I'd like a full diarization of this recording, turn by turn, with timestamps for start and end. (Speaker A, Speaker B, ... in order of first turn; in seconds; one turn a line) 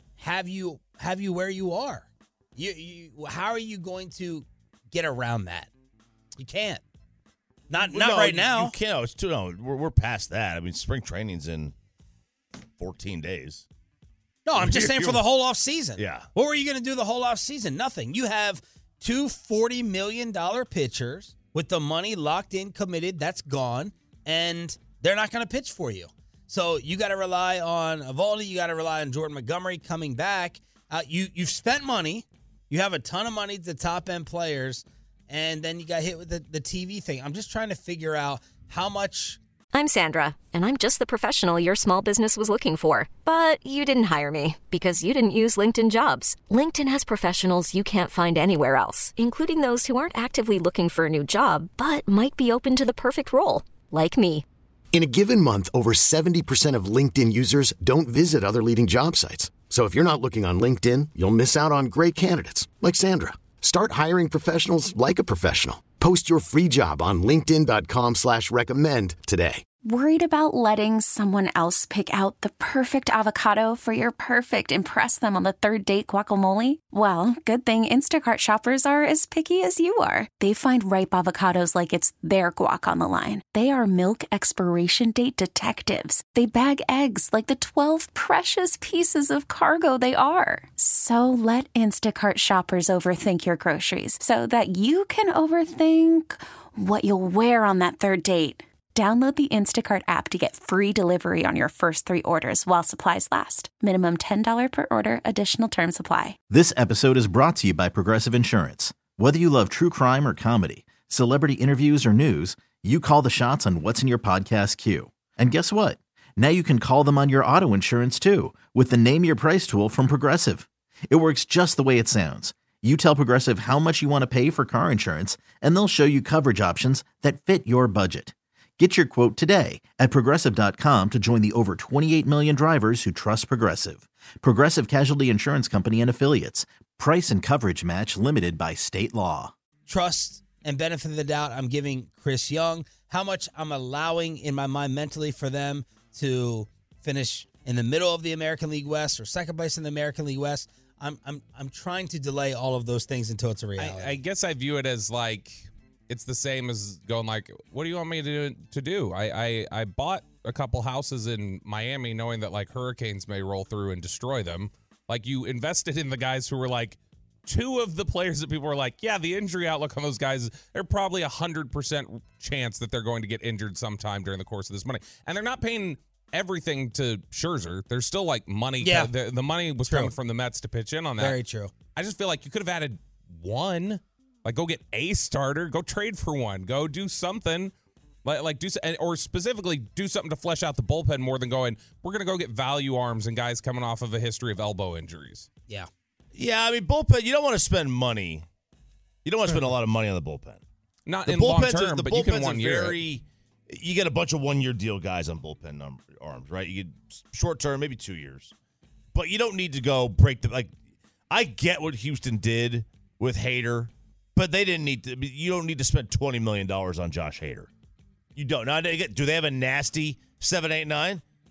Speaker A: 0.2-5.7
Speaker A: 6.4-6.8
Speaker A: 7.7-8.8
Speaker B: 7.8-11.7
Speaker B: 12.8-13.7
Speaker A: 14.4-39.4
Speaker B: 14.6-15.2
Speaker B: 16.0-16.2
Speaker C: 39.7-54.4
Speaker D: 54.9-69.6
Speaker E: 69.8-106.4
Speaker F: 106.5-139.5
Speaker A: 139.9-154.2
Speaker G: 153.8-181.4
Speaker A: 178.8-179.1
Speaker A: 179.8-180.1
Speaker A: 181.2-181.7
Speaker G: 181.9-187.7
Speaker G: 188.2-195.5
Speaker B: 196.3-198.4
Speaker B: 199.2-200.6
Speaker G: 201.1-203.0
Speaker B: 201.3-208.5
Speaker B: 209.1-210.7
Speaker B: 211.3-217.7
Speaker B: 218.3-221.2